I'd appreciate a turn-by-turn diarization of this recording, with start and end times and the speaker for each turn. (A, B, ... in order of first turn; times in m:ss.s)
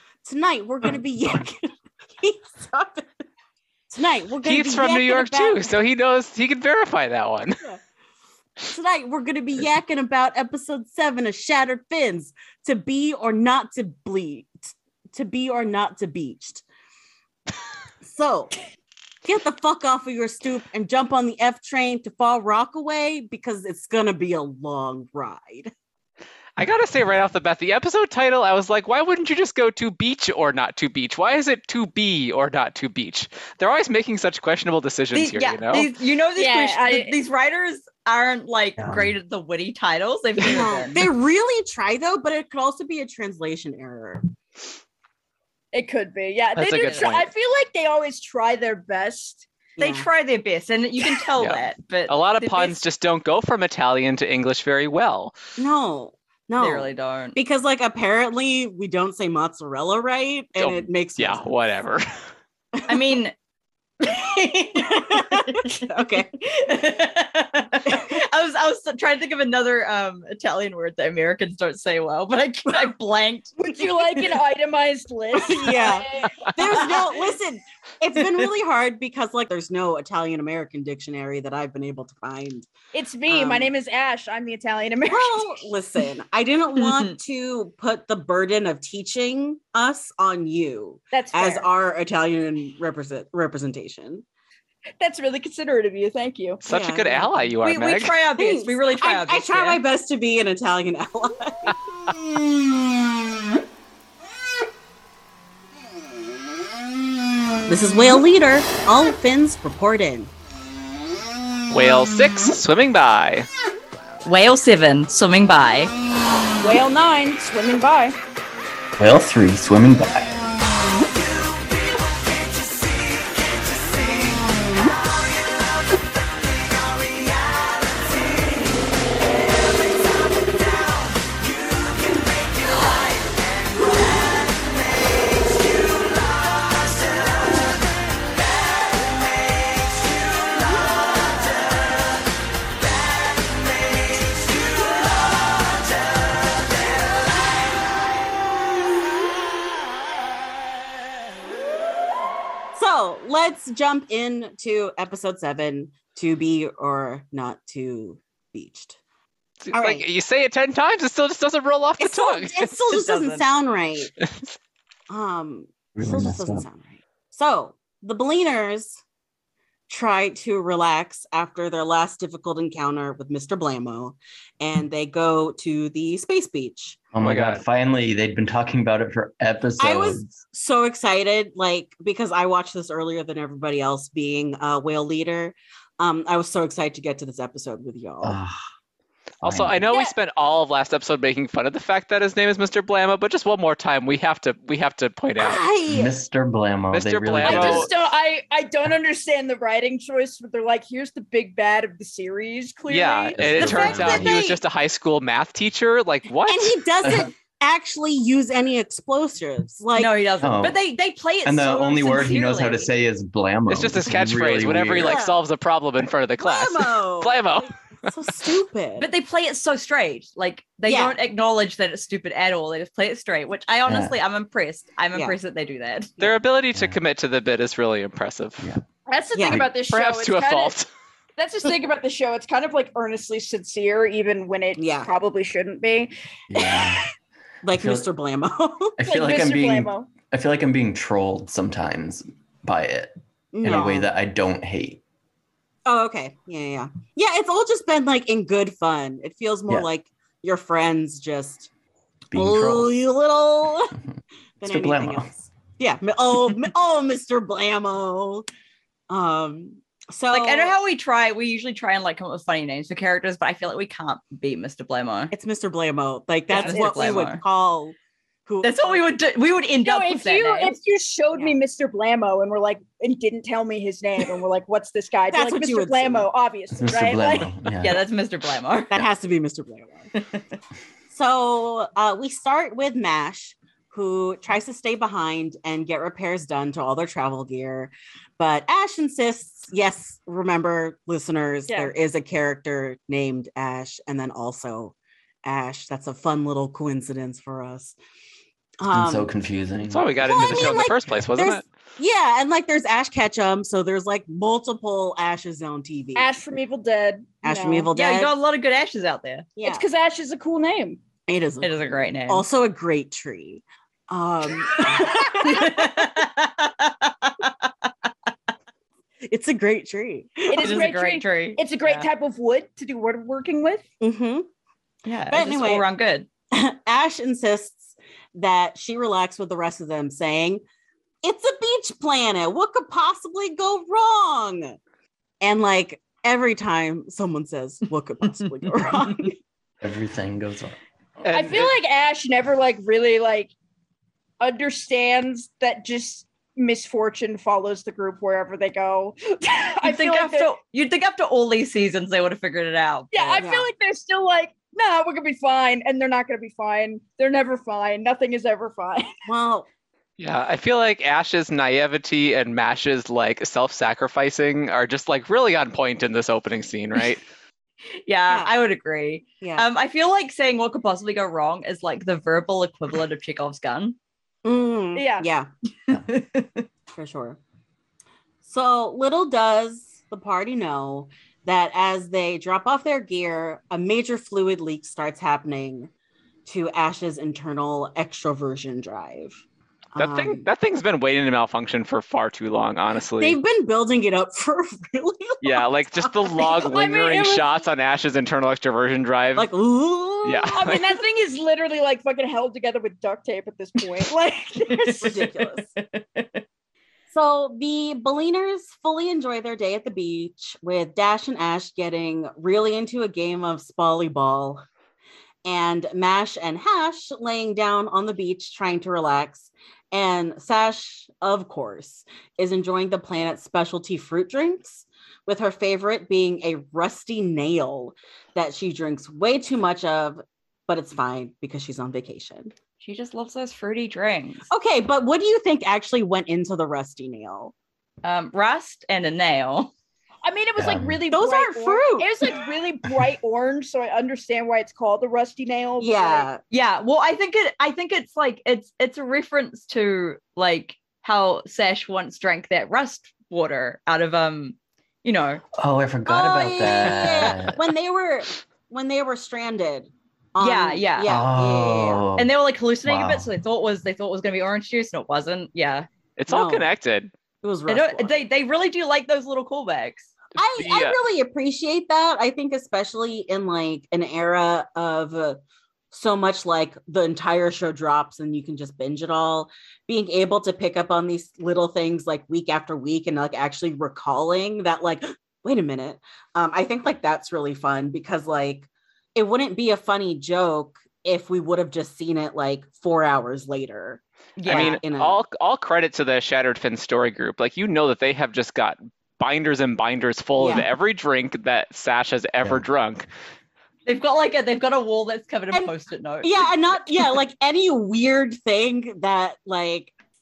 0:00.2-0:03.2 A
0:03.9-0:05.7 A
0:04.4-0:07.7 B
0:08.7-0:16.6 A
0:18.0-0:18.5 A
0:19.2-0:25.7 A
0:26.6-0:35.9 B
0:35.1-0:41.0 C
0:36.4-0:37.2 D
0:38.8-0:39.1 E
0:40.4-0:44.2 A
0:45.7-0:49.5 D
0:46.5-0:47.3 B
0:46.7-0:47.1 C
0:49.8-0:50.1 A
0:49.8-0:52.8 C
0:51.4-0:55.3 B
0:55.6-1:01.4 A
0:56.6-0:57.4 C
1:00.6-1:02.0 B
1:02.9-1:03.3 C
1:04.0-1:13.6 C
1:04.7-1:06.5 A
1:07.8-1:08.1 A
1:13.6-1:17.0 D
1:15.4-1:22.7 A
1:16.6-1:17.0 C
1:22.9-1:25.7 D
1:23.3-1:23.7 A
1:25.0-1:34.2 A
1:31.1-1:31.7 D
1:35.0-1:36.6 D
1:36.6-1:38.1 B
1:36.7-1:37.5 A
1:37.6-1:39.8 C
1:38.4-1:41.8 A
1:47.7-1:50.3 A
1:51.7-1:53.5 B
1:54.2-1:55.9 C
1:56.6-1:58.2 D
1:59.0-2:00.4 E
2:32.7-2:39.0 A
2:39.6-2:42.7 B
2:39.7-2:40.0 A
2:42.0-2:44.1 A
2:42.9-2:43.4 C
2:45.1-2:49.0 A
2:46.0-2:46.6 E
2:49.9-2:57.0 A
2:57.1-3:00.3 E
2:57.2-2:57.6 B
2:59.8-3:08.4 A
3:08.2-3:08.5 E
3:09.4-3:09.9 E
3:09.4-3:15.6 B
3:09.9-3:10.1 D
3:15.4-3:16.2 A
3:15.9-3:17.9 E
3:16.9-3:17.9 B
3:17.4-3:24.4 D
3:22.9-3:27.2 B
3:23.4-3:24.4 E
3:23.7-3:24.5 A
3:26.4-3:30.1 A
3:30.0-3:32.9 C
3:30.4-3:30.8 E
3:31.4-3:35.2 E
3:33.7-3:37.7 B
3:35.0-3:35.4 A
3:36.4-3:39.1 A
3:39.0-3:46.3 C
3:40.8-3:41.2 A
3:43.9-3:44.2 E
3:46.2-3:48.7 B
3:49.1-3:50.7 D
3:49.3-3:49.6 A
3:49.9-3:50.9 B
3:51.4-3:56.1 D
3:54.8-3:55.1 A
3:56.5-3:57.0 E
3:56.6-3:57.0 D
3:57.6-3:59.0 A
3:57.7-3:58.1 E
3:59.0-4:05.0 E
3:59.0-4:00.1 D
4:03.5-4:04.1 A
4:05.9-4:11.7 A
4:12.3-4:12.9 E
4:12.3-4:14.0 A
4:14.6-4:18.4 A
4:14.6-4:15.3 E
4:19.1-4:20.7 A
4:20.3-4:25.3 C
4:25.3-4:28.9 A
4:26.5-4:27.4 C
4:26.6-4:27.2 D
4:28.6-4:30.8 C
4:29.8-4:37.5 D
4:35.3-4:36.3 A
4:36.7-4:38.0 E
4:37.8-4:38.9 C
4:38.9-4:40.1 A
4:40.2-4:40.4 C
4:41.1-4:58.0 A
4:58.8-4:59.3 A
4:58.9-5:00.8 E
4:59.9-5:01.6 B
5:00.2-5:06.3 A
5:06.2-5:07.9 D
5:07.4-5:08.3 A
5:07.9-5:09.5 C
5:09.6-5:09.8 A
5:09.6-5:11.0 D
5:11.3-5:11.7 A
5:11.6-5:12.4 C
5:12.3-5:16.2 A
5:15.0-5:17.5 C
5:19.3-5:20.9 A
5:20.5-5:23.8 D
5:20.6-5:22.0 C
5:24.0-5:24.5 A
5:25.0-5:26.3 C
5:25.3-5:25.9 A
5:26.5-5:30.6 A
5:31.2-5:34.8 A
5:35.4-5:39.4 A
5:39.8-5:40.8 E
5:41.2-5:41.8 B
5:41.3-5:43.5 D
5:44.4-5:50.5 D
5:49.8-5:53.4 C
5:53.1-5:59.1 D
5:53.4-5:53.7 A
5:59.2-5:59.7 A
6:00.2-6:07.2 B
6:08.0-6:14.0 C
6:08.3-6:08.5 A
6:09.4-6:09.7 A
6:14.4-6:15.5 A
6:14.9-6:15.2 D
6:15.9-6:16.6 C
6:16.9-6:17.4 A
6:18.4-6:25.9 A
6:26.4-6:29.4 A
6:29.9-6:30.5 A
6:30.0-6:33.4 B
6:33.2-6:37.4 A
6:35.4-6:39.5 B
6:36.4-6:37.5 D
6:39.4-6:40.8 A
6:40.2-6:40.8 B
6:40.5-6:45.2 D
6:44.9-6:45.2 C
6:44.9-6:45.7 A
6:45.8-6:46.4 C
6:47.1-6:54.6 A
6:55.4-7:12.5 A
7:12.8-7:14.5 C
7:14.5-7:17.5 A
7:18.0-7:19.7 C
7:20.2-7:26.3 D
7:20.6-7:21.0 E
7:21.1-7:22.1 A
7:25.8-7:26.4 A
7:26.5-7:35.4 C
7:35.6-7:37.6 E
7:36.0-7:42.0 A
7:40.4-7:41.1 C
7:41.0-7:42.3 E
7:42.2-7:45.9 C
7:42.8-7:43.3 E
7:46.2-7:47.1 B
7:46.3-7:46.7 A
7:47.4-7:48.2 A
7:47.7-7:50.1 C
7:50.4-7:55.4 A
7:50.6-7:51.0 B
7:55.9-8:15.2 A
8:14.4-8:14.8 C
8:14.5-8:23.1 B
8:20.4-8:20.7 A
8:23.8-8:26.5 C
8:25.5-8:29.9 A